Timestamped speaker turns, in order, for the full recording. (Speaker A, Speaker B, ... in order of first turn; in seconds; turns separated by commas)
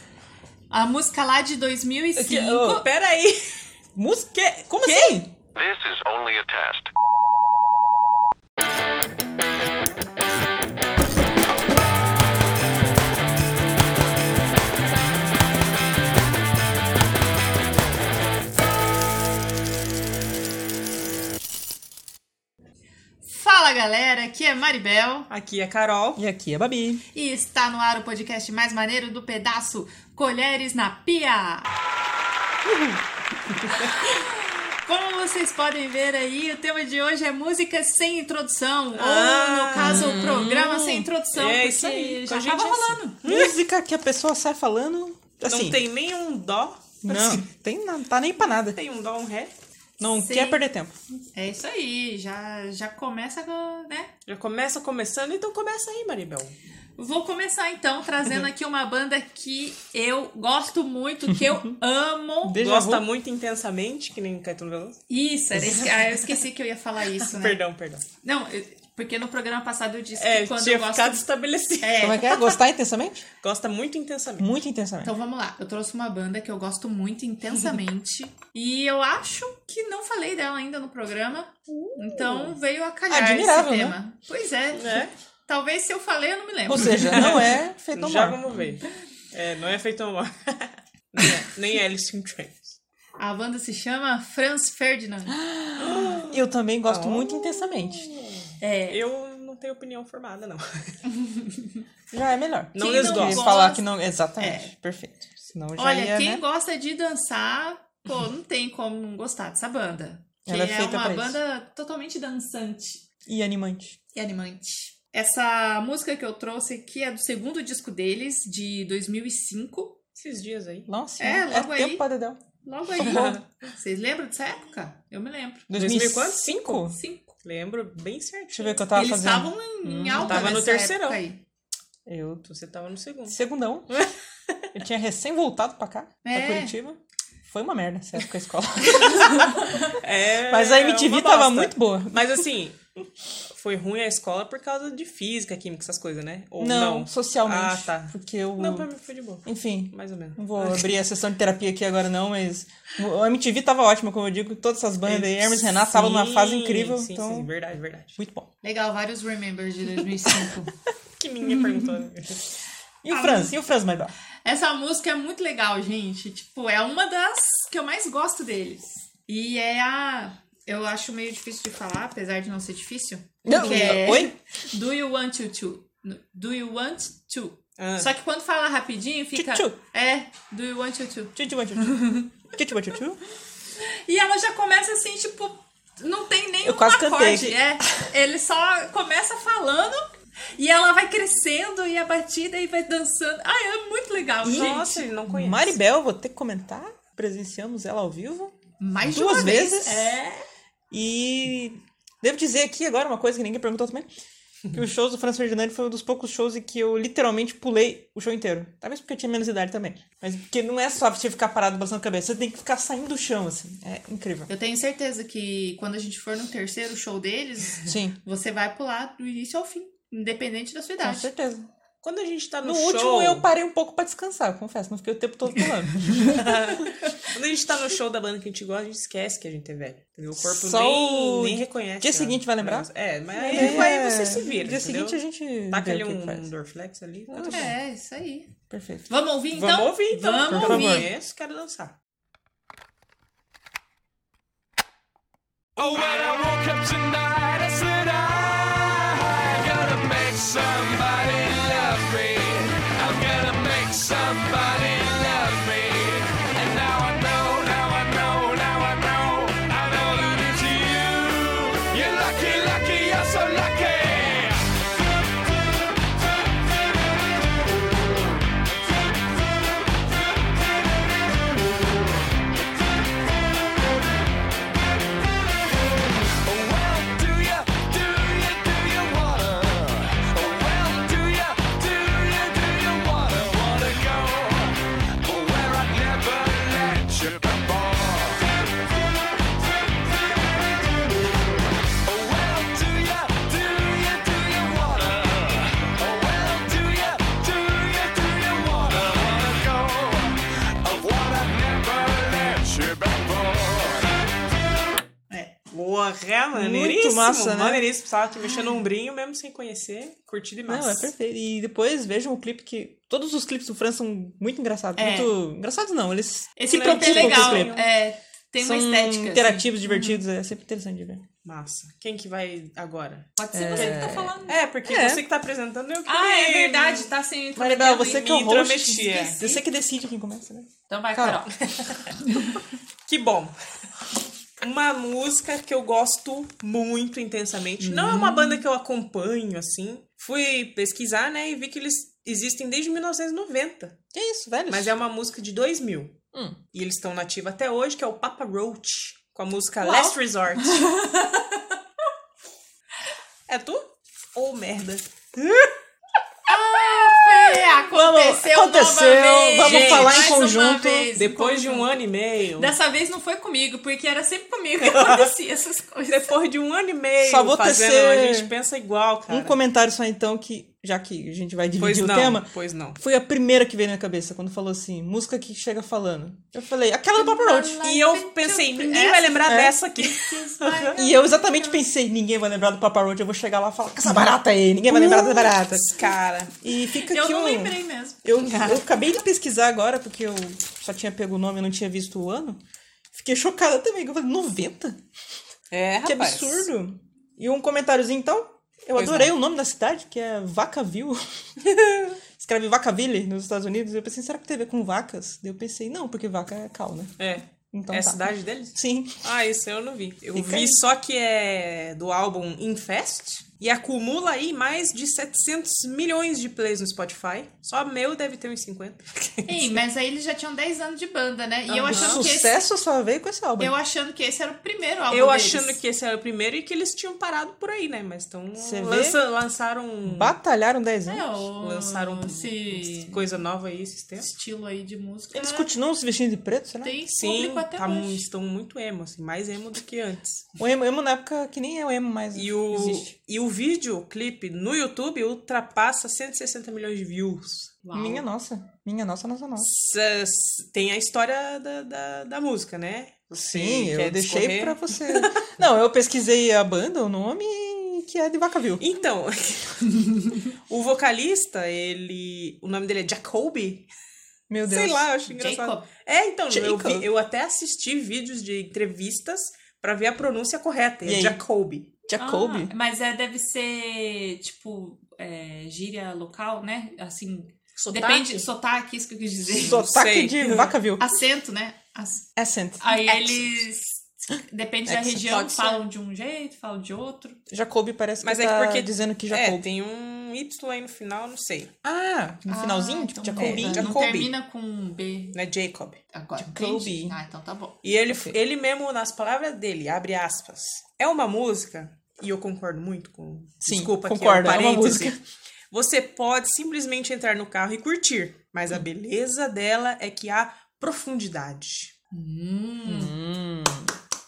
Speaker A: 0.7-2.9, Speaker B: 2.2-3.4, Speaker C: 4.0-5.3, Speaker B: 4.7-5.2, Speaker D: 5.5-6.9, Speaker A: 23.2-25.3, Speaker B: 25.3-26.2, Speaker C: 26.2-27.0, Speaker A: 27.1-31.7, Speaker B: 33.7-34.0, Speaker A: 34.9-43.2, Speaker B: 39.0-40.4, Speaker C: 39.8-41.1, Speaker B: 41.3-43.5, Speaker C: 43.2-45.8, Speaker B: 45.5-47.4, Speaker C: 47.0-48.8, Speaker B: 48.7-49.5, Speaker C: 50.0-51.0, Speaker A: 50.2-50.6, Speaker A: 51.3-54.1, Speaker B: 54.3-56.6, Speaker A: 57.0-62.6, Speaker C: 62.4-63.1, Speaker B: 62.6-65.0, Speaker A: 65.1-67.6, Speaker B: 67.2-68.0, Speaker A: 68.2-71.2, Speaker B: 70.2-72.2, Speaker A: 71.8-72.5, Speaker C: 72.0-73.3, Speaker B: 73.4-74.5, Speaker C: 74.4-75.1, Speaker A: 75.0-85.0, Speaker B: 82.1-82.5, Speaker C: 83.1-84.0, Speaker B: 84.7-85.1, Speaker A: 85.5-87.2, Speaker C: 86.7-88.5, Speaker B: 87.1-92.8, Speaker A: 93.2-95.4, Speaker C: 95.3-98.1, Speaker B: 95.8-98.2, Speaker A: 98.6-99.0, Speaker B: 98.9-100.9, Speaker A: 101.2-101.7, Speaker C: 102.1-106.4, Speaker B: 102.8-103.6, Speaker A: 102.8-103.9, Speaker A: 104.4-104.7, Speaker A: 105.8-113.0, Speaker C: 110.5-111.4, Speaker C: 113.3-114.0, Speaker A: 114.1-120.0, Speaker B: 120.2-120.9, Speaker C: 120.9-122.4, Speaker A: 121.2-122.1, Speaker A: 122.6-125.7, Speaker C: 123.0-123.4, Speaker B: 123.0-123.4, Speaker C: 125.7-127.0, Speaker B: 125.7-126.8, Speaker A: 126.9-127.3, Speaker B: 127.4-128.8, Speaker C: 128.5-130.6, Speaker A: 128.9-131.4, Speaker B: 130.2-131.2, Speaker C: 132.1-132.4, Speaker B: 132.1-133.4, Speaker C: 133.3-134.0, Speaker B: 133.9-134.6, Speaker C: 134.7-137.0, Speaker A: 136.2-136.8, Speaker C: 137.5-139.6, Speaker B: 139.9-142.8, Speaker C: 140.5-142.5, Speaker B: 143.5-150.9, Speaker C: 146.6-148.9, Speaker C: 149.4-157.5, Speaker B: 155.1-158.2, Speaker C: 158.2-158.5, Speaker A: 158.6-160.7, Speaker B: 161.2-162.5, Speaker C: 163.0-164.1, Speaker A: 163.1-163.5, Speaker A: 164.4-182.3, Speaker C: 173.4-174.3, Speaker B: 177.8-178.1, Speaker C: 179.3-179.8, Speaker C: 181.4-183.2, Speaker A: 183.8-195.1, Speaker C: 186.6-188.1, Speaker B: 194.4-195.8, Speaker C: 195.3-200.2, Speaker A: 198.8-200.4, Speaker C: 200.9-204.1, Speaker C: 204.7-214.5, Speaker A: 214.5-221.3, Speaker C: 217.9-218.2, Speaker C: 221.0-221.7, Speaker B: 222.0-223.4, Speaker C: 222.6-226.4, Speaker B: 226.2-237.7, Speaker C: 230.4-232.9, Speaker A: 233.4-233.8, Speaker C: 233.4-236.5, Speaker C: 237.3-237.7, Speaker A: 237.5-238.5, Speaker C: 238.7-239.1, Speaker A: 239.1-241.1, Speaker B: 239.5-241.9, Speaker C: 240.5-241.1, Speaker D: 245.8-264.7, Speaker D: 276.4-288.5, Speaker D: 292.1-304.1, Speaker A: 305.3-305.6, Speaker B: 305.7-311.1, Speaker C: 306.5-307.9, Speaker A: 308.4-308.8, Speaker C: 310.7-317.8, Speaker A: 315.0-315.3, Speaker A: 316.6-320.2, Speaker B: 316.7-317.9, Speaker C: 318.6-321.2, Speaker B: 321.4-327.1, Speaker A: 323.4-324.6, Speaker C: 323.5-325.2, Speaker A: 326.1-328.3, Speaker C: 327.6-331.5, Speaker B: 327.9-329.4, Speaker A: 328.9-329.6, Speaker A: 330.9-331.5, Speaker B: 331.7-332.0, Speaker A: 332.3-332.6, Speaker B: 333.1-333.5, Speaker B: 334.6-344.0, Speaker A: 337.8-338.6, Speaker C: 344.1-344.9, Speaker B: 344.7-346.2, Speaker B: 346.7-350.8, Speaker A: 349.8-351.6, Speaker B: 353.5-355.7, Speaker A: 356.5-361.9, Speaker C: 357.9-361.1, Speaker B: 359.6-360.4, Speaker B: 361.1-362.7, Speaker A: 362.6-366.3, Speaker B: 364.8-365.3, Speaker B: 366.1-369.6, Speaker C: 367.2-368.5, Speaker C: 369.3-377.8, Speaker B: 371.8-373.0, Speaker A: 377.1-381.8, Speaker B: 377.8-381.0, Speaker C: 379.5-379.8, Speaker C: 380.9-385.9, Speaker B: 384.9-386.5, Speaker C: 386.6-392.6, Speaker A: 387.1-389.0, Speaker C: 393.1-395.0, Speaker B: 395.7-396.7, Speaker C: 396.1-401.2, Speaker B: 398.9-399.3, Speaker C: 402.4-409.2, Speaker B: 407.2-419.8, Speaker C: 410.3-410.8, Speaker A: 419.5-422.6, Speaker B: 421.7-422.3, Speaker C: 421.9-423.7, Speaker A: 423.6-425.8, Speaker B: 425.1-430.3, Speaker C: 428.6-429.2, Speaker C: 430.1-431.3, Speaker A: 431.1-433.3, Speaker B: 431.6-434.3, Speaker A: 434.2-435.7, Speaker C: 435.3-437.0, Speaker A: 436.8-438.2, Speaker B: 437.1-440.5, Speaker C: 440.6-443.1, Speaker B: 442.3-447.8, Speaker A: 447.8-448.3, Speaker C: 447.9-449.7, Speaker B: 449.6-455.3, Speaker C: 453.4-458.8, Speaker B: 458.8-463.9, Speaker C: 464.5-465.1, Speaker B: 464.6-471.9, Speaker A: 465.4-465.9, Speaker C: 466.5-467.1, Speaker C: 471.1-471.4, Speaker C: 472.1-472.7, Speaker A: 472.2-479.8, Speaker B: 477.8-478.5, Speaker C: 479.6-481.1, Speaker B: 479.6-480.8, Speaker A: 481.0-482.3, Speaker C: 482.4-483.6, Speaker A: 482.8-487.4, Speaker C: 484.9-485.8, Speaker B: 485.3-485.7, Speaker C: 487.5-489.6, Speaker B: 488.2-491.7, Speaker C: 491.8-494.1, Speaker A: 492.5-495.4, Speaker B: 493.4-494.3, Speaker B: 495.3-496.0, Speaker A: 496.1-497.8, Speaker C: 496.4-497.2, Speaker B: 497.8-505.2, Speaker C: 498.1-498.4, Speaker C: 503.6-505.2, Speaker B: 505.7-511.9, Speaker A: 512.1-513.1, Speaker C: 512.9-513.9